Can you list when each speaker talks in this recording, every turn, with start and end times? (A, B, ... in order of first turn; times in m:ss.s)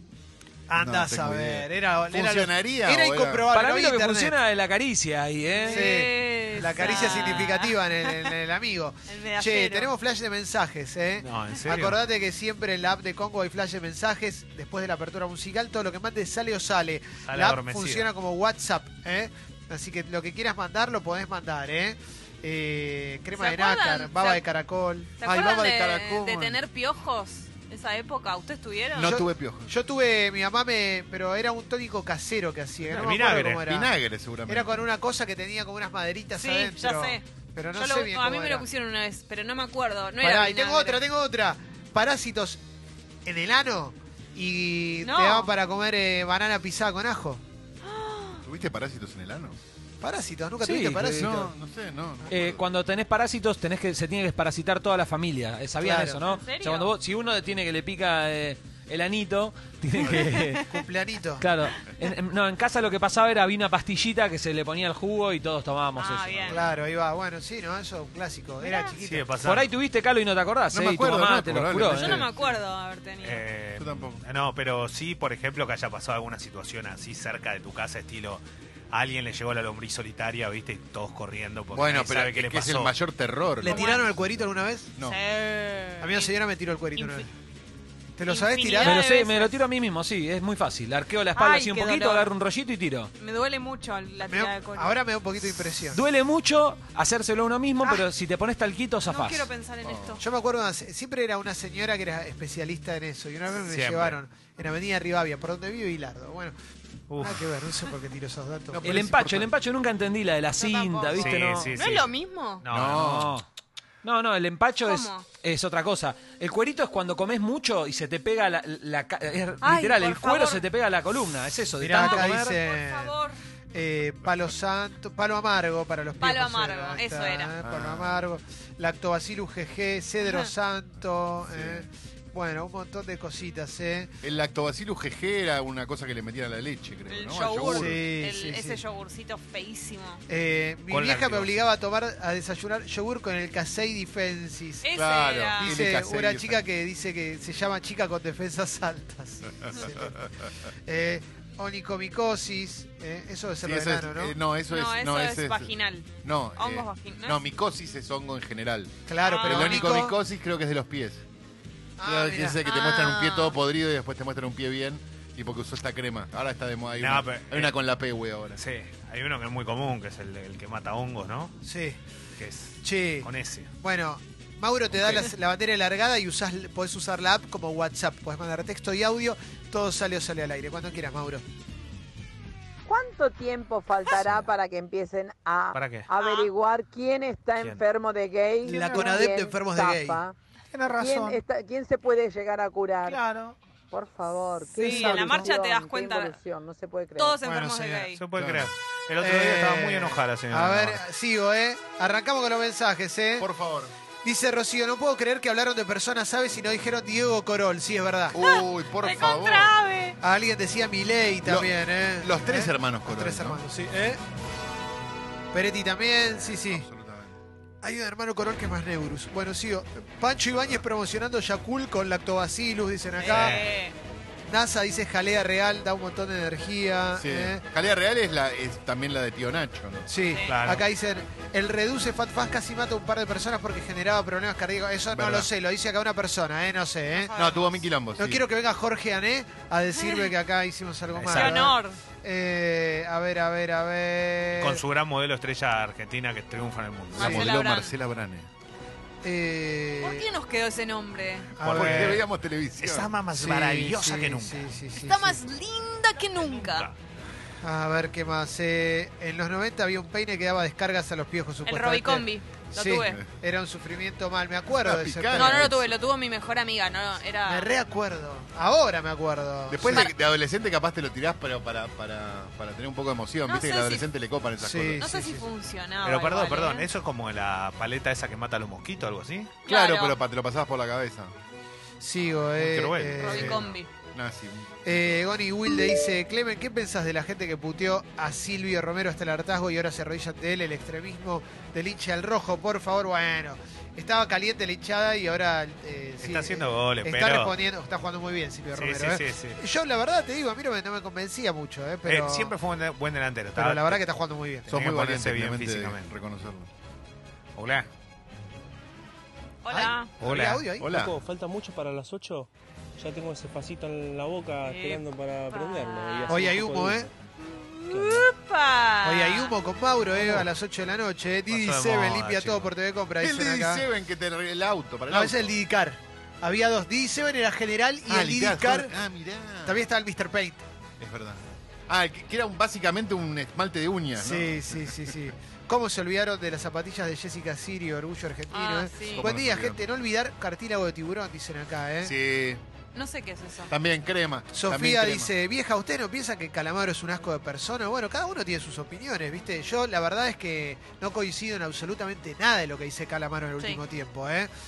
0:00.7-0:04.3 A
0:00.7-0:03.4 B
0:03.5-0:05.9 C
0:05.5-0:08.3 D
0:05.6-0:25.2 A
0:09.1-0:09.9 D
0:11.2-0:12.0 E
0:17.2-0:18.1 E
0:23.3-0:24.4 D
0:25.2-0:29.2 D
0:25.2-0:26.6 B
0:28.9-0:29.7 B
0:29.0-0:33.9 A
0:32.9-0:33.6 E
0:33.4-0:34.8 B
0:34.5-0:38.6 A
0:36.3-0:37.2 D
0:37.7-0:41.0 D
0:40.2-0:42.6 A
0:43.2-0:47.4 A
0:45.0-0:45.5 D
0:47.8-0:48.4 D
0:48.4-0:49.6 B
0:50.0-0:51.5 A
0:50.6-0:51.3 C
0:51.0-0:52.6 B
0:52.3-1:00.7 C
0:55.8-0:56.2 A
0:56.2-0:56.9 D
1:00.6-1:01.4 A
1:01.4-1:06.5 C
1:06.0-1:06.6 D
1:06.5-1:09.3 A
1:08.6-1:08.9 D
1:09.0-1:09.7 E
1:09.4-1:12.2 C
1:10.7-1:12.3 B
1:11.9-1:13.4 D
1:13.2-1:22.9 E
1:13.8-1:14.2 B
1:21.7-1:24.0 B
1:23.6-1:24.9 A
1:23.7-1:24.0 D
1:25.0-1:26.3 D
1:26.0-1:27.3 A
1:27.0-1:27.3 D
1:28.2-1:29.0 A
1:28.3-1:29.6 D
1:28.8-1:33.1 C
1:31.3-1:32.3 D
1:33.2-1:35.0 D
1:34.2-1:36.0 A
1:35.9-1:39.5 C
1:39.1-1:40.2 D
1:39.8-1:40.2 B
1:40.2-1:46.5 A
1:43.6-1:44.2 E
1:47.1-1:47.4 E
1:47.2-1:49.0 A
1:48.7-1:49.5 B
1:48.8-1:51.7 C
1:50.6-1:52.6 D
1:51.1-1:53.1 E
1:52.7-1:53.3 B
1:52.8-1:53.4 C
1:54.0-2:02.6 C
1:54.8-1:55.2 D
1:59.6-2:00.6 D
2:01.8-2:03.2 A
2:02.0-2:03.4 D
2:03.7-2:14.1 A
2:06.2-2:07.6 D
2:07.6-2:08.2 B
2:10.2-2:10.5 D
2:11.5-2:11.9 B
2:14.2-2:18.0 B
2:17.1-2:20.2 D
2:17.6-2:18.8 A
2:20.3-2:24.9 A
2:20.9-2:21.5 E
2:24.8-2:25.9 D
2:24.9-2:26.6 B
2:25.6-2:30.2 A
2:30.8-2:34.3 A
2:33.6-2:35.7 B
2:34.7-2:37.4 D
2:36.2-2:41.2 B
2:39.1-2:40.2 A
2:39.2-2:39.9 D
2:42.0-2:42.6 A
2:42.0-2:48.6 B
2:42.6-2:43.6 D
2:47.0-2:47.7 E
2:48.6-2:51.5 E
2:51.6-2:52.0 A
2:52.4-2:53.7 E
2:52.8-2:53.3 A
2:53.8-3:01.4 A
3:02.8-3:10.3 F
3:04.2-3:04.4 E
3:05.7-3:06.1 E
3:06.2-3:06.5 D
3:08.6-3:10.2 A
3:08.7-3:09.2 E
3:10.7-3:11.4 E
3:10.9-3:13.2 F
3:13.0-3:13.6 E
3:13.9-3:17.4 F
3:14.7-3:16.4 D
3:17.1-3:18.2 D
3:17.4-3:18.1 A
3:18.2-3:21.0 E
3:18.4-3:18.7 B
3:19.2-3:23.5 A
3:23.4-3:23.9 B
3:24.2-3:28.4 A
3:28.3-3:29.7 B
3:28.4-3:30.2 D
3:30.2-3:34.2 A
3:31.4-3:33.6 B
3:35.5-3:36.8 A
3:36.2-3:37.4 B
3:37.8-3:43.6 A
3:43.2-3:44.0 D
3:43.3-3:43.6 E
3:44.5-3:47.6 A
3:47.1-3:50.1 B
3:50.1-3:57.3 A
3:50.5-3:50.8 E
3:55.1-3:55.5 B
3:57.1-3:57.8 D
3:57.4-3:58.4 B
3:58.2-4:04.8 A
4:00.0-4:00.3 D
4:01.1-4:01.7 E
4:01.3-4:02.0 D
4:04.6-4:07.4 E
4:07.1-4:08.5 B
4:07.2-4:07.9 D
4:09.2-4:10.2 A
4:10.0-4:11.6 D
4:11.6-4:12.2 E
4:11.6-4:13.1 B
4:11.7-4:12.1 A
4:12.8-4:14.7 E
4:13.3-4:15.4 A
4:15.0-4:16.9 D
4:16.4-4:16.9 E
4:17.6-4:25.7 A
4:21.6-4:23.2 D
4:24.8-4:25.9 B
4:25.3-4:27.7 D
4:27.4-4:30.1 A
4:29.7-4:35.1 B
4:29.9-4:30.1 D
4:33.4-4:34.1 D
4:34.6-4:35.5 A
4:35.0-4:36.9 D
4:36.0-4:39.5 E
4:39.6-4:40.2 D
4:39.7-4:41.3 B
4:42.0-4:43.7 A
4:42.5-4:43.5 E
4:43.2-4:43.9 D
4:43.3-4:45.2 B
4:44.8-5:02.5 A
4:56.2-4:57.6 E
4:58.7-4:59.6 E
5:02.0-5:04.0 E
5:03.6-5:04.7 A
5:04.7-5:06.1 E
5:04.7-5:06.7 B
5:07.6-5:07.9 E
5:09.6-5:10.1 D
5:09.7-5:10.9 A
5:10.2-5:10.6 E
5:10.8-5:11.1 B
5:10.8-5:17.1 G
5:14.6-5:16.6 D
5:16.3-5:17.1 A
5:17.4-5:19.5 D
5:17.9-5:18.3 G
5:19.0-5:23.8 A
5:21.5-5:22.7 E
5:23.2-5:25.5 B
5:25.1-5:28.9 A
5:28.1-5:29.8 B
5:29.6-5:30.6 A
5:31.0-5:35.2 B
5:34.2-5:42.1 A
5:38.5-5:39.3 D
5:39.2-5:39.8 B
5:42.0-5:42.6 B
5:42.9-5:43.7 D
5:43.7-5:45.3 B
5:44.5-5:54.5 A
5:53.6-5:53.8 D